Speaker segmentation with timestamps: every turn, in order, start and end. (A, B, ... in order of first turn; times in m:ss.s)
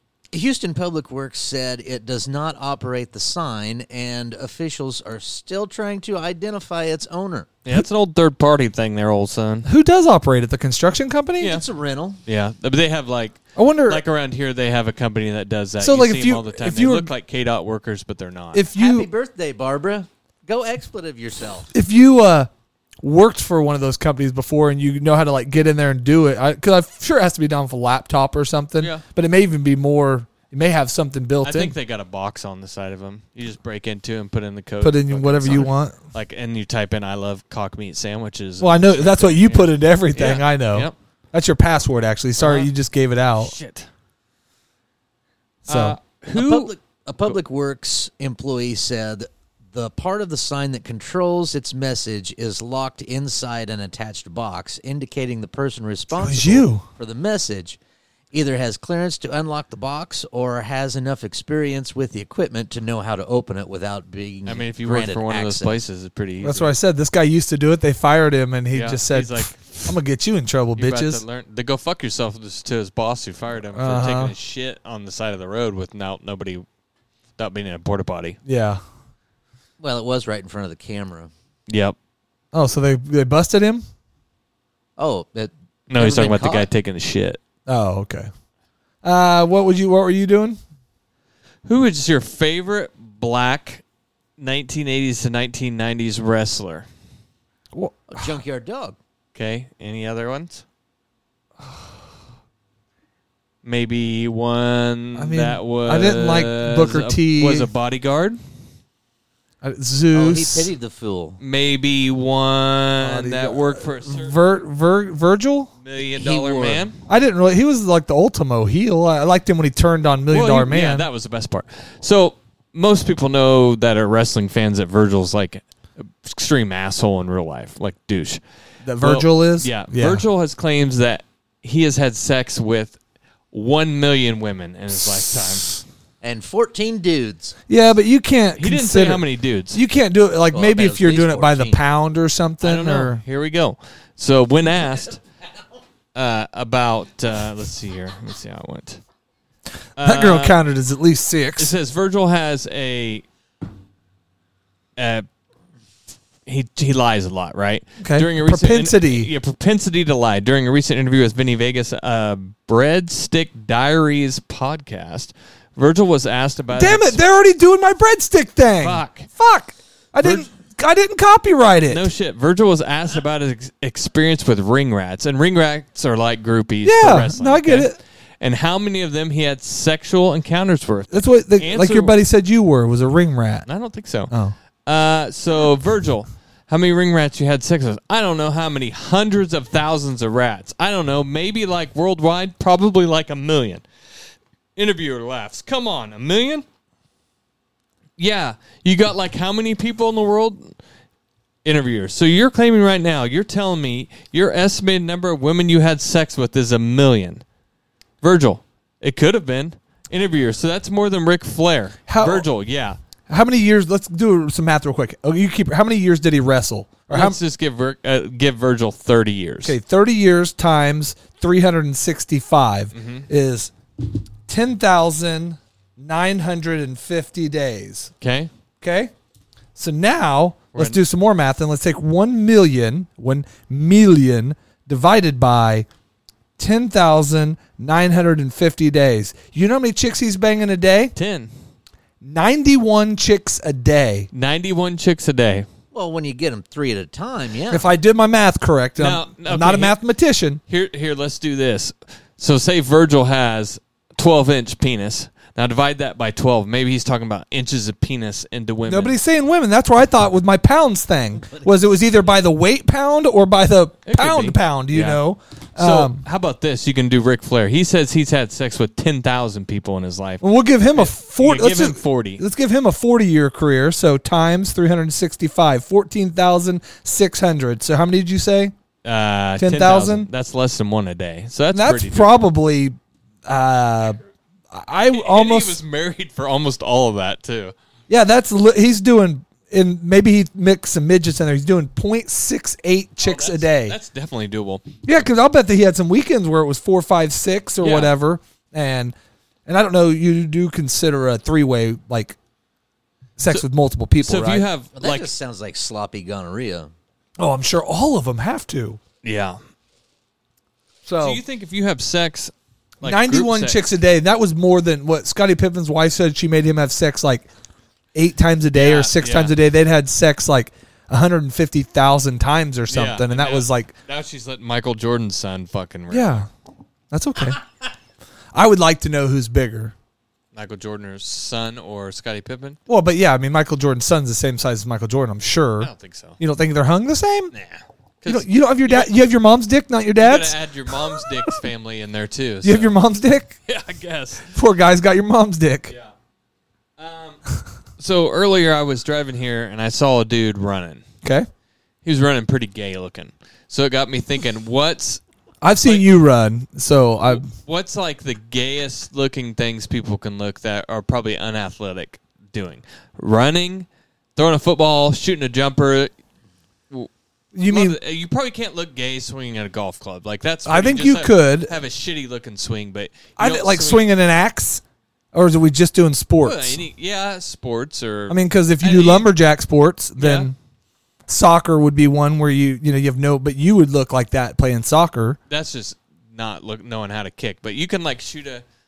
0:00.3-0:07.5 A
0:07.6-0:09.7 B
0:09.6-0:11.6 C
0:11.4-0:12.2 A
0:12.2-0:18.6 B
0:13.6-0:14.0 C
0:15.8-0:17.1 C
0:18.5-0:19.1 C
0:18.7-0:21.7 A
0:21.7-0:22.5 C
0:23.0-0:31.8 C
0:28.8-0:29.0 B
0:31.4-0:40.9 B
0:34.8-0:36.0 C
0:38.6-0:43.5 C
0:42.4-0:42.7 B
0:43.4-0:43.9 B
0:45.6-0:46.0 C
0:45.7-0:46.7 B
0:46.3-0:57.8 A
0:56.1-0:56.8 C
0:58.3-1:05.7 A
1:04.4-1:06.7 B
1:06.4-1:11.2 C
1:08.7-1:09.9 B
1:10.8-1:16.6 B
1:13.7-1:14.3 C
1:17.4-1:18.4 B
1:18.4-1:18.8 C
1:19.8-1:21.3 A
1:21.7-1:22.0 B
1:22.5-1:23.8 C
1:25.0-1:26.7 A
1:25.9-1:27.4 B
1:27.7-1:28.3 C
1:29.0-1:30.6 C
1:31.6-1:33.8 B
1:34.4-1:36.9 B
1:37.7-1:38.3 C
1:38.1-1:39.0 A
1:39.3-1:40.6 B
1:43.6-1:48.4 B
1:45.2-1:47.7 C
1:49.6-1:50.7 C
1:50.1-1:51.4 A
1:51.4-1:54.4 B
1:53.0-1:55.7 C
1:55.8-1:57.0 B
1:56.2-1:56.8 A
1:57.1-2:01.1 C
2:00.3-2:08.4 B
2:08.8-2:10.2 C
2:09.0-2:13.0 B
2:13.5-2:15.8 B
2:16.2-2:17.6 A
2:17.7-2:23.2 C
2:18.6-2:19.8 B
2:20.5-2:21.8 A
2:22.6-2:25.2 B
2:26.1-2:29.0 B
2:30.0-2:30.6 B
2:30.0-2:31.7 C
2:31.6-2:33.2 B
2:35.0-2:35.3 B
2:36.4-2:47.2 B
2:38.0-2:39.3 C
2:46.7-2:52.1 C
2:48.8-2:49.3 B
2:50.2-2:50.5 B
2:51.9-3:02.2 B
2:56.8-2:58.0 C
3:01.1-3:03.7 C
3:03.7-3:04.3 B
3:04.3-3:04.6 C
3:04.8-3:13.8 B
3:14.8-3:16.6 B
3:18.2-3:20.8 B
3:21.6-3:27.4 B
3:28.2-3:33.0 B
3:32.1-3:32.5 C
3:33.3-3:37.4 C
3:37.1-3:39.8 B
3:39.6-3:48.1 C
3:42.9-3:43.3 B
3:48.2-3:48.5 B
3:48.8-3:49.1 C
3:49.8-3:55.9 C
3:56.6-4:01.1 C
4:01.1-4:01.5 B
4:02.2-4:04.3 C
4:04.3-4:05.7 B
4:05.9-4:07.8 A
4:07.7-4:10.6 C
4:09.0-4:10.0 B
4:10.7-4:19.2 B
4:18.9-4:26.2 C
4:24.0-4:25.2 B
4:25.8-4:30.4 B
4:30.4-4:38.7 C
4:30.9-4:32.4 B
4:39.0-4:42.4 B
4:39.6-4:40.3 C
4:41.7-4:44.2 C
4:44.7-4:45.8 C
4:45.0-4:47.7 B
4:48.1-4:54.0 C
4:53.2-4:54.9 B
4:55.0-4:59.1 C
4:57.8-4:58.1 B
4:59.6-5:02.4 C
5:03.4-5:04.6 C
5:04.2-5:05.3 B
5:05.0-5:06.9 A
5:07.4-5:09.0 C
5:09.2-5:09.6 B
5:11.0-5:11.4 C
5:11.2-5:13.8 B
5:13.0-5:17.5 C
5:18.1-5:23.9 C
5:18.7-5:19.5 B
5:22.9-5:26.5 B
5:26.1-5:26.5 C
5:27.1-5:27.6 C
5:28.5-5:29.9 C
5:30.5-5:32.8 B
5:32.9-5:37.5 C
5:35.8-5:36.4 B
5:37.5-5:39.1 B
5:38.2-5:41.5 C
5:40.2-5:43.0 B
5:42.6-5:43.6 C
5:43.7-5:44.5 B
5:44.5-5:45.9 C
5:47.0-5:47.4 B
5:48.0-5:51.0 B
5:51.2-5:51.5 C
5:52.0-5:55.2 B
5:55.6-5:57.4 C
5:55.8-5:56.1 B
5:57.3-6:06.1 B
6:07.5-6:08.0 C
6:07.6-6:14.0 B
6:10.6-6:11.8 C
6:13.4-6:14.8 C
6:15.3-6:16.8 C
6:16.4-6:19.3 B
6:18.3-6:20.5 C
6:20.2-6:20.5 B
6:21.3-6:25.4 C
6:25.5-6:28.6 B